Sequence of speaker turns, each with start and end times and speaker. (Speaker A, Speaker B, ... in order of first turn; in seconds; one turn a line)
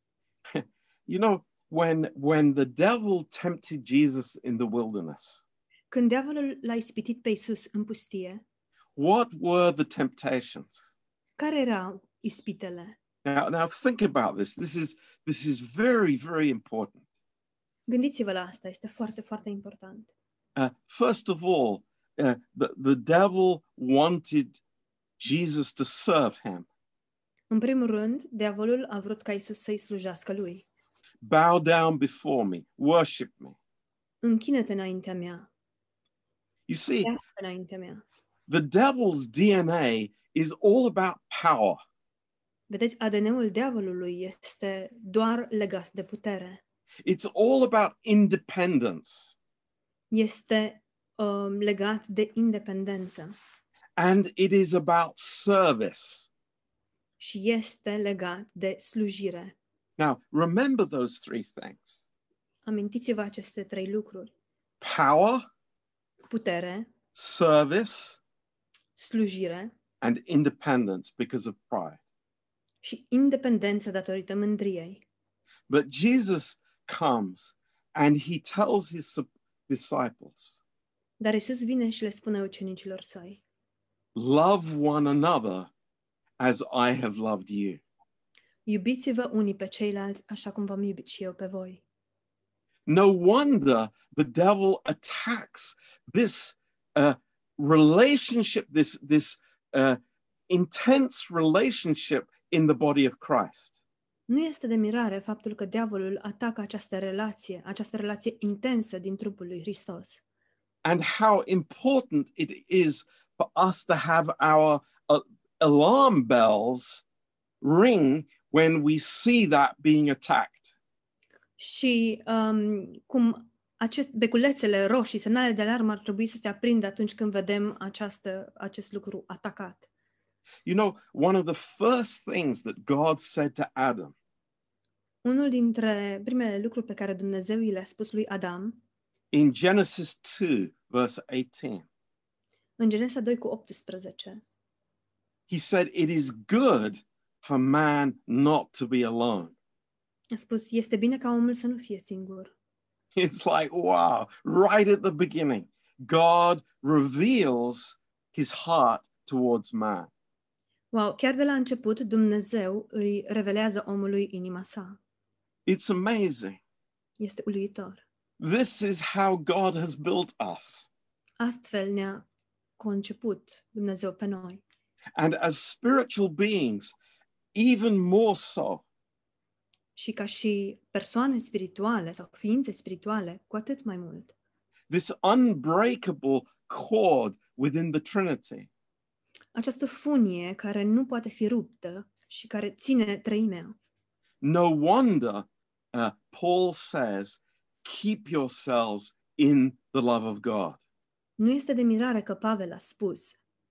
Speaker A: 0.5-5.4
Speaker B: 5.9-8.4
Speaker A: 9.0-10.8
Speaker B: 11.4-13.0
Speaker A: 13.2-17.0
Speaker B: 17.9-20.1
Speaker A: 20.6-24.6
Speaker A: 25.2-26.7
Speaker B: 27.5-30.7
Speaker A: 31.2-33.6
Speaker B: 34.2-35.5
Speaker A: 36.7-37.1
Speaker B: 37.0-38.0
Speaker A: 38.5-41.8
Speaker B: 42.7-46.6
Speaker A: 47.0-49.4
Speaker B: 50.1-53.3
Speaker A: 54.0-56.3
Speaker B: 57.2-59.5
Speaker A: 60.0-62.0
Speaker B: 62.6-64.3
Speaker A: 64.8-65.5
Speaker B: 66.3-66.9
Speaker A: 67.2-68.2
Speaker B: 69.0-69.7
Speaker A: 70.0-72.0
Speaker B: 72.8-75.0
Speaker A: 75.7-80.6
Speaker B: 81.2-83.4
Speaker A: 84.2-85.7
Speaker A: 86.4-87.8
Speaker B: 88.7-91.8
Speaker A: 92.9-103.8
Speaker B: 104.3-110.2
Speaker A: 110.8-117.0
Speaker A: 117.6-120.8
Speaker B: 121.6-129.9
Speaker A: 130.7-134.1
Speaker B: 135.2-138.8
Speaker A: 139.3-141.9
Speaker B: 142.8-144.4
Speaker A: 145.5-149.6
Speaker B: 150.3-152.5
Speaker A: 153.2-160.1
Speaker B: 160.9-165.0
Speaker A: 165.7-166.6
Speaker B: 167.2-168.0
Speaker A: 168.4-170.9
Speaker B: 171.4-172.3
Speaker B: 172.8-174.6
Speaker A: 175.2-176.9
Speaker A: 177.5-178.8
Speaker B: 180.0-184.3
Speaker A: 184.9-188.7
Speaker B: 189.6-193.8
Speaker A: 194.4-200.8
Speaker B: 201.4-203.4